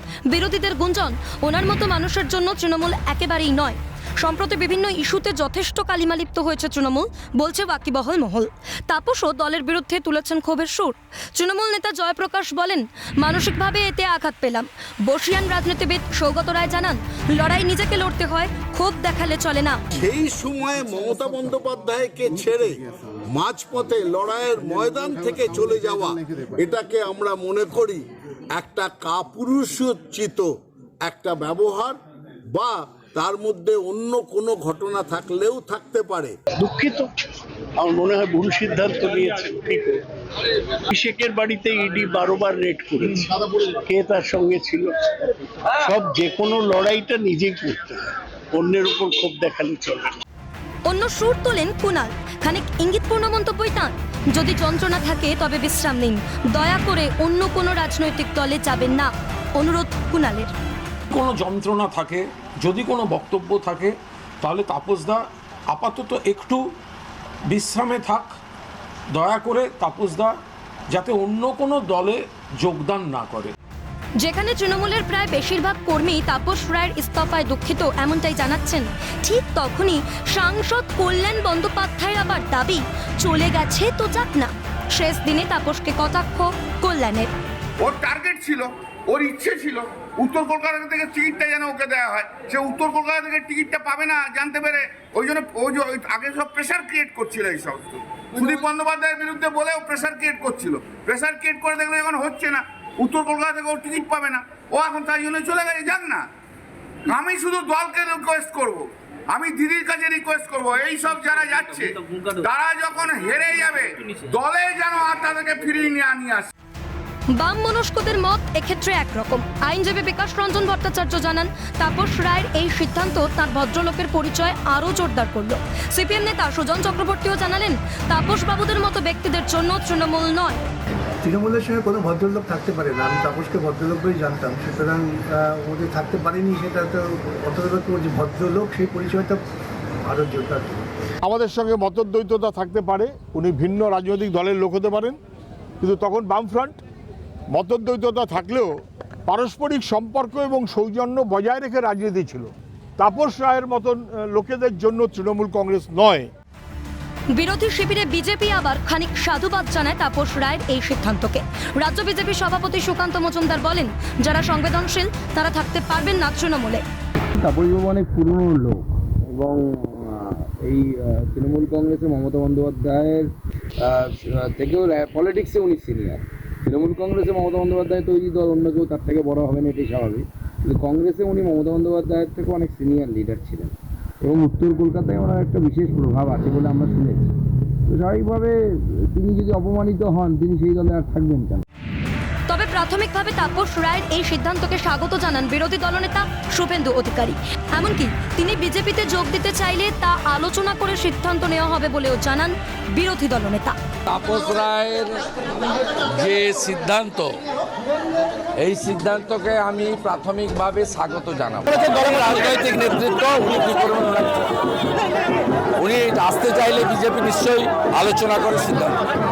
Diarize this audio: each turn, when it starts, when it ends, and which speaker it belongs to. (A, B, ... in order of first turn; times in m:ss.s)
0:00.3-0:19.8 A
0:19.9-0:28.0 B
0:28.6-0:30.5 B
0:31.0-0:32.0 B
0:32.5-0:36.4 B
0:36.6-0:37.1 C
0:37.8-0:40.0 C
0:40.9-0:50.2 C
0:50.9-1:00.5 A
1:01.1-1:06.6 D
1:07.5-1:08.4 D
1:09.1-1:10.4 D
1:10.9-1:13.5 D
1:14.2-1:27.3 A
1:27.8-1:46.3 E
1:47.1-1:56.5 E
1:57.3-2:10.7 A
2:11.2-2:19.4 F
2:20.1-2:20.8 F
2:21.2-2:25.2 G
2:25.8-2:26.8 G
2:27.5-2:28.8 G
2:29.3-2:36.3 G
2:37.3-2:46.8 A
2:47.4-2:53.3 H
2:53.8-3:07.3 H
3:07.9-3:11.6 H
3:12.5-3:23.8 A
3:24.1-3:25.2 I
3:26.0-3:27.4 I
3:28.6-3:34.5 I
3:35.8-3:39.0 I